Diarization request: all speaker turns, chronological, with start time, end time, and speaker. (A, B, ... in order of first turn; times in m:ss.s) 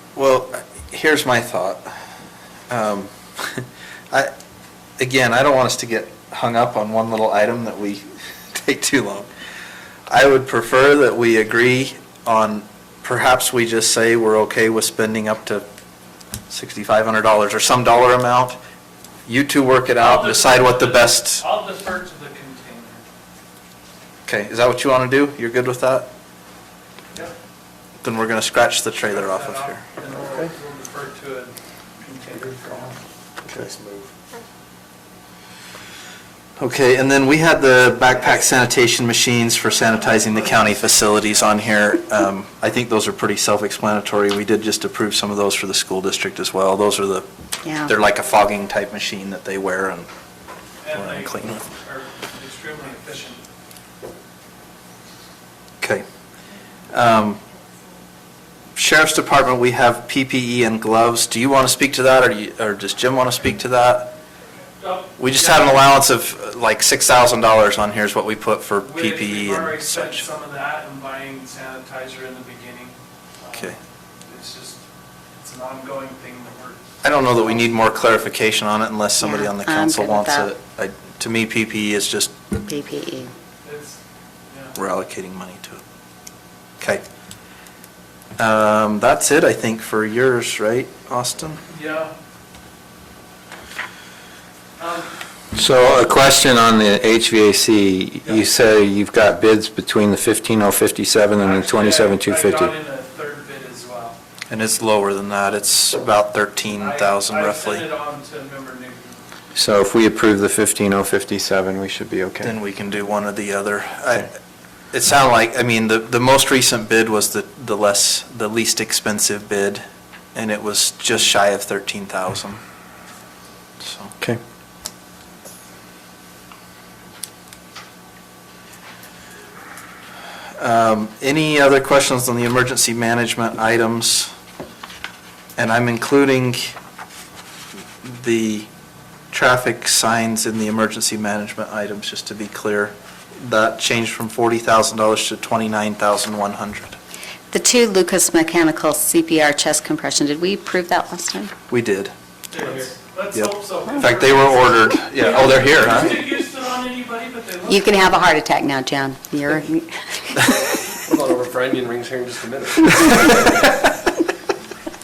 0:00.2-0:01.9 A
0:02.7-0:04.3 A
0:05.0-0:09.3 A
0:10.1-0:15.6 A
0:16.5-0:18.6 A
0:19.3-0:21.4 A
0:20.0-0:23.0 B
0:24.3-0:26.1 A
0:28.0-0:29.8 A
0:29.0-0:33.0 B
0:32.6-0:32.9 C
0:33.4-0:34.1 C
0:36.6-0:47.3 A
0:40.0-0:41.4 B
0:47.6-0:47.9 D
0:47.9-0:50.1 A
0:50.8-0:53.4 B
0:50.9-0:51.6 A
0:56.9-0:57.4 A
0:58.8-1:04.1 A
1:04.8-1:05.8 B
1:05.2-1:10.3 A
1:08.8-1:14.8 B
1:15.4-1:18.2 B
1:17.0-1:22.4 A
1:19.2-1:20.5 D
1:22.6-1:23.3 D
1:23.6-1:24.8 B
1:24.8-1:25.8 A
1:28.4-1:31.6 A
1:31.7-1:32.1 B
1:34.8-1:35.1 B
1:35.5-1:42.7 E
1:41.4-1:44.2 B
1:44.5-1:47.9 A
1:46.7-1:49.2 B
1:49.6-1:52.5 E
1:52.4-1:54.3 A
1:54.9-1:59.8 A
2:00.4-2:02.6 A
2:03.8-2:04.1 A
2:10.6-2:14.3 A
2:15.6-2:16.8 A
2:18.0-2:18.7 A
2:19.3-2:27.0 A
2:27.5-2:31.5 D
2:31.7-2:32.1 A
2:32.5-2:38.0 B
2:33.3-2:36.3 A
2:37.7-2:40.6 D
2:41.0-2:43.7 C